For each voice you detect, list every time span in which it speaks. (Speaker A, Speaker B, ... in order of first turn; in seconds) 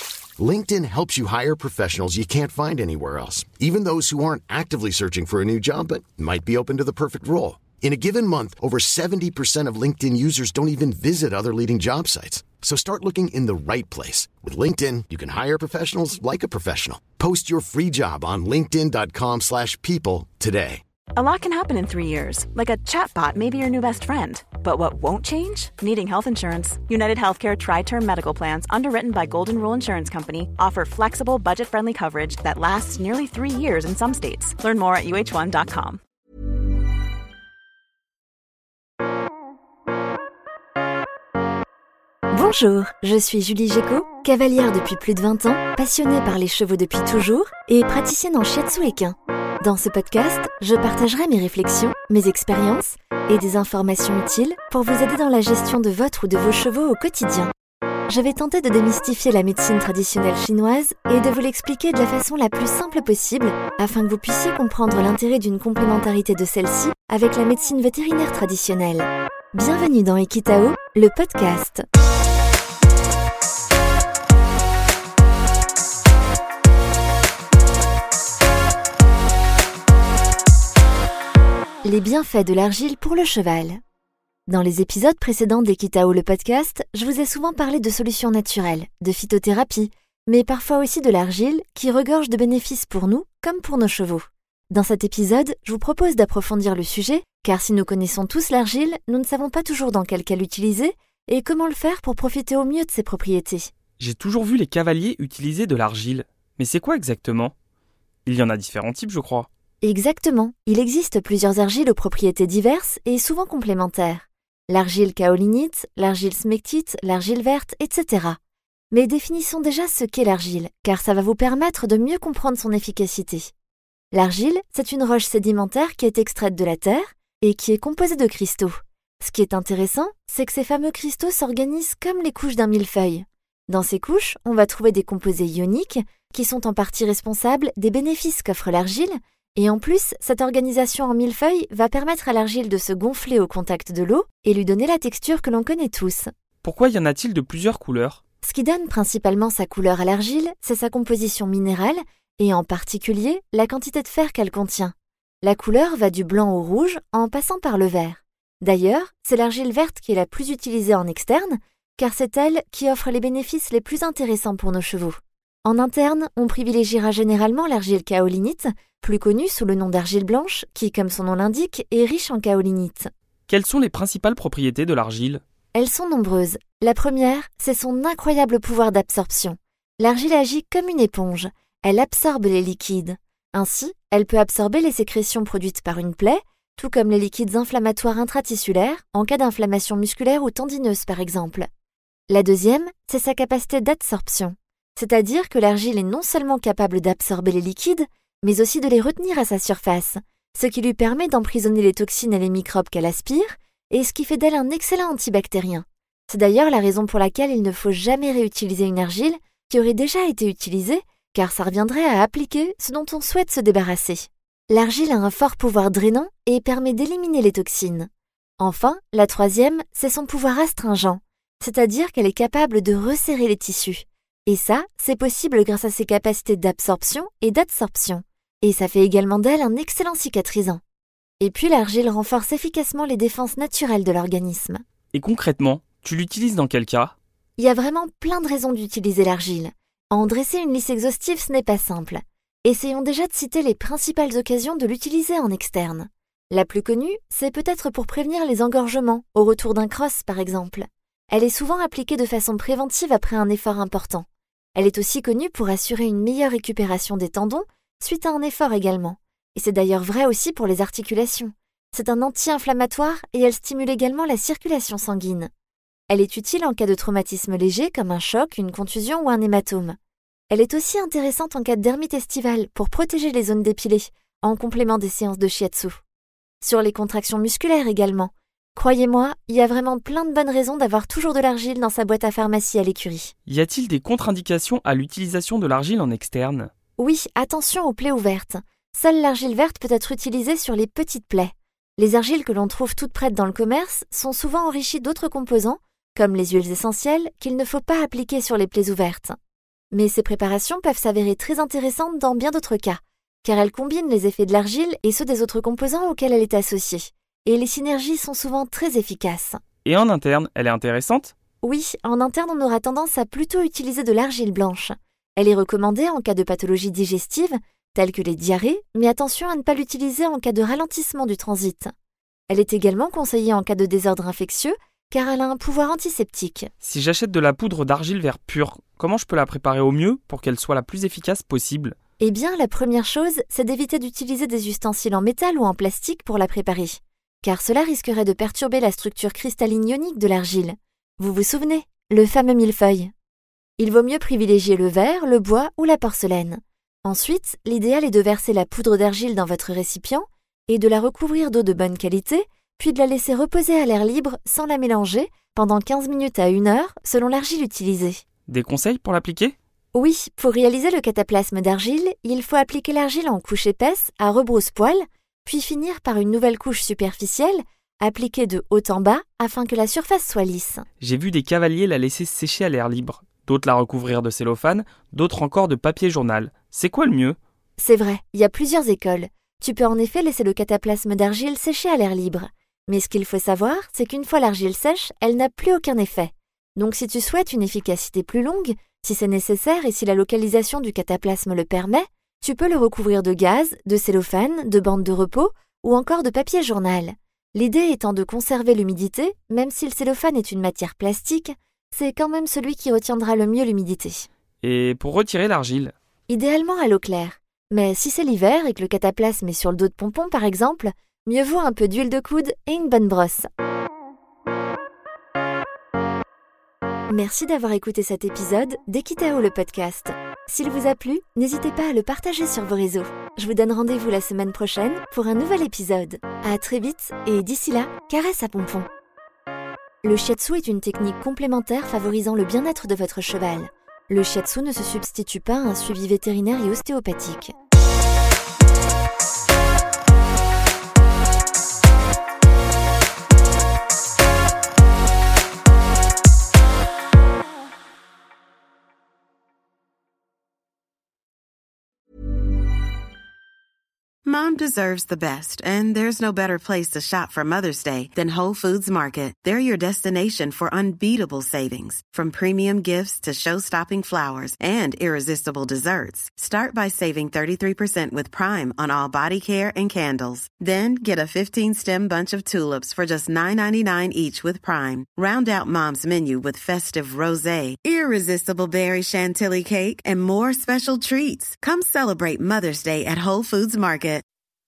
Speaker A: 0.4-20.8
Speaker B: 21.1-36.0
Speaker C: 42.3-57.5, 58.1-71.8, 81.8-83.8, 84.5-103.7, 109.8-118.4, 118.9-123.5, 124.1-146.3, 148.4-173.1, 175.7-191.7, 192.3-230.8, 231.4-234.8, 237.6-265.5, 266.1-269.9, 270.5-276.0, 276.6-283.3, 287.0-299.4, 299.9-309.6, 311.6-321.9, 322.5-326.7, 332.2-343.1, 343.8-358.2, 359.9-370.8, 377.8-404.2, 406.3-413.5, 417.1-428.9, 430.0-437.5
Speaker D: 104.0-107.5, 108.2-109.5, 146.6-148.2, 173.5-175.4, 235.1-237.1, 283.4-286.7, 309.8-311.3, 326.8-331.9, 358.5-359.5, 371.0-377.4, 404.6-405.9
Speaker E: 454.2-484.2